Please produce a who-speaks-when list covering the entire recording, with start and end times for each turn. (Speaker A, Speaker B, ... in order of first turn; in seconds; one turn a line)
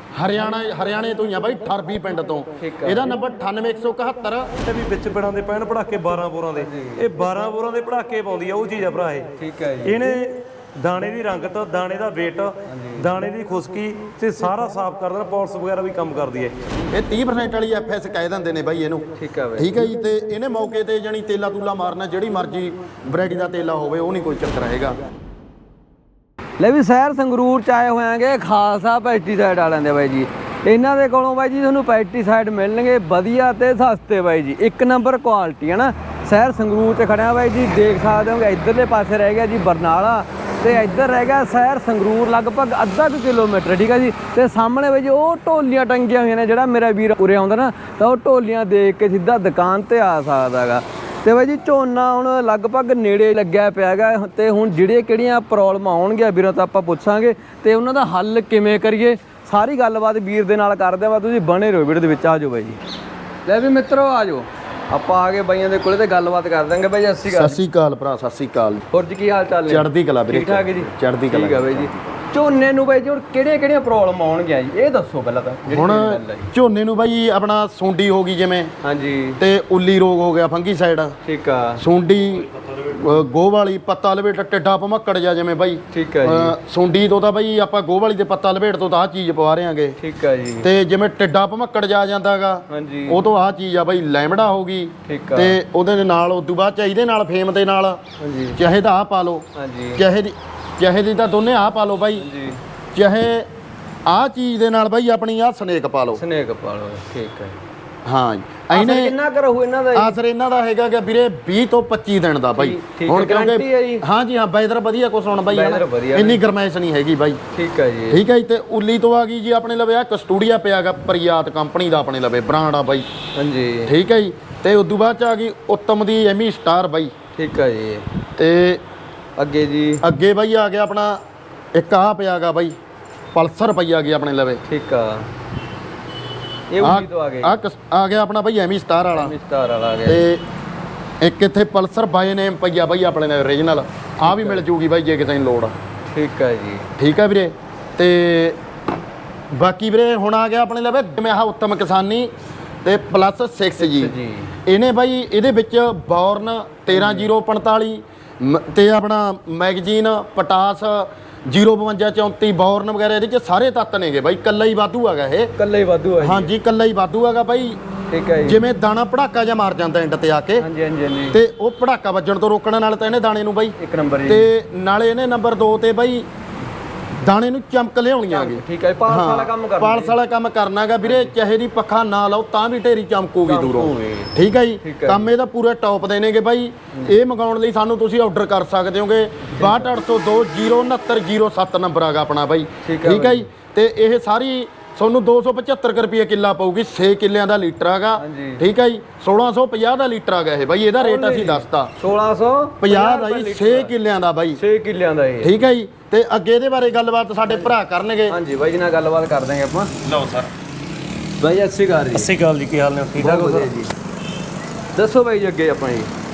Speaker A: 0.1-4.5
Speaker B: 2.6-3.1
Speaker C: 4.6-9.3
Speaker B: 6.6-7.0
Speaker B: 9.4-10.0
Speaker C: 9.8-16.6
Speaker B: 12.7-13.1
Speaker A: 16.9-25.0
Speaker B: 19.2-19.8
Speaker B: 26.6-62.8
Speaker B: 63.5-67.6
Speaker A: 67.3-68.8
Speaker B: 68.9-76.5
Speaker A: 69.7-72.1
Speaker A: 75.7-78.7
Speaker B: 78.8-79.4
Speaker A: 79.4-81.2
Speaker B: 81.2-81.8
Speaker A: 81.8-90.0
Speaker B: 85.9-86.5
Speaker B: 90.0-90.7
Speaker A: 90.6-98.0
Speaker B: 92.7-93.2
Speaker B: 95.1-95.6
Speaker B: 98.2-98.6
Speaker A: 98.6-99.4
Speaker B: 99.6-100.0
Speaker A: 100.0-102.3
Speaker B: 102.2-102.6
Speaker A: 102.9-103.5
Speaker A: 104.1-106.2
Speaker B: 106.2-107.6
Speaker A: 108.1-109.2
Speaker B: 108.7-110.2
Speaker A: 109.9-117.4
Speaker B: 112.5-114.0
Speaker B: 115.5-116.4
Speaker B: 117.5-118.2
Speaker A: 118.1-123.1
Speaker B: 123.3-123.9
Speaker A: 123.9-127.1
Speaker B: 127.3-128.1
Speaker A: 128.4-128.8
Speaker B: 129.4-130.0
Speaker A: 130.0-131.2
Speaker A: 131.8-132.8
Speaker A: 133.3-134.6
Speaker B: 134.7-135.3
Speaker B: 136.7-137.6
Speaker A: 136.8-139.3
Speaker B: 139.1-140.3
Speaker A: 140.1-140.4
Speaker A: 141.2-145.7
Speaker B: 144.3-144.6
Speaker B: 146.1-146.9
Speaker A: 147.0-148.6
Speaker A: 149.5-152.3
Speaker A: 152.8-154.1
Speaker B: 153.8-154.5
Speaker A: 154.7-165.5
Speaker B: 156.9-157.3
Speaker B: 165.6-166.5
Speaker A: 166.2-167.8
Speaker B: 168.1-168.6
Speaker A: 168.4-170.7
Speaker B: 170.6-171.4
Speaker A: 171.3-173.8
Speaker B: 173.8-174.5
Speaker A: 174.3-176.3
Speaker A: 177.2-201.9
Speaker B: 178.3-180.2
Speaker B: 181.0-181.3
Speaker B: 183.4-185.3
Speaker B: 189.6-189.9
Speaker B: 192.8-193.5
Speaker B: 198.2-198.6
Speaker B: 201.0-203.9
Speaker A: 202.8-204.6
Speaker B: 204.6-205.5
Speaker A: 205.4-208.4
Speaker B: 207.5-207.7
Speaker B: 208.3-209.9
Speaker A: 210.0-210.5
Speaker B: 211.4-212.3
Speaker C: 212.1-213.7
Speaker B: 213.2-213.9
Speaker B: 215.0-216.1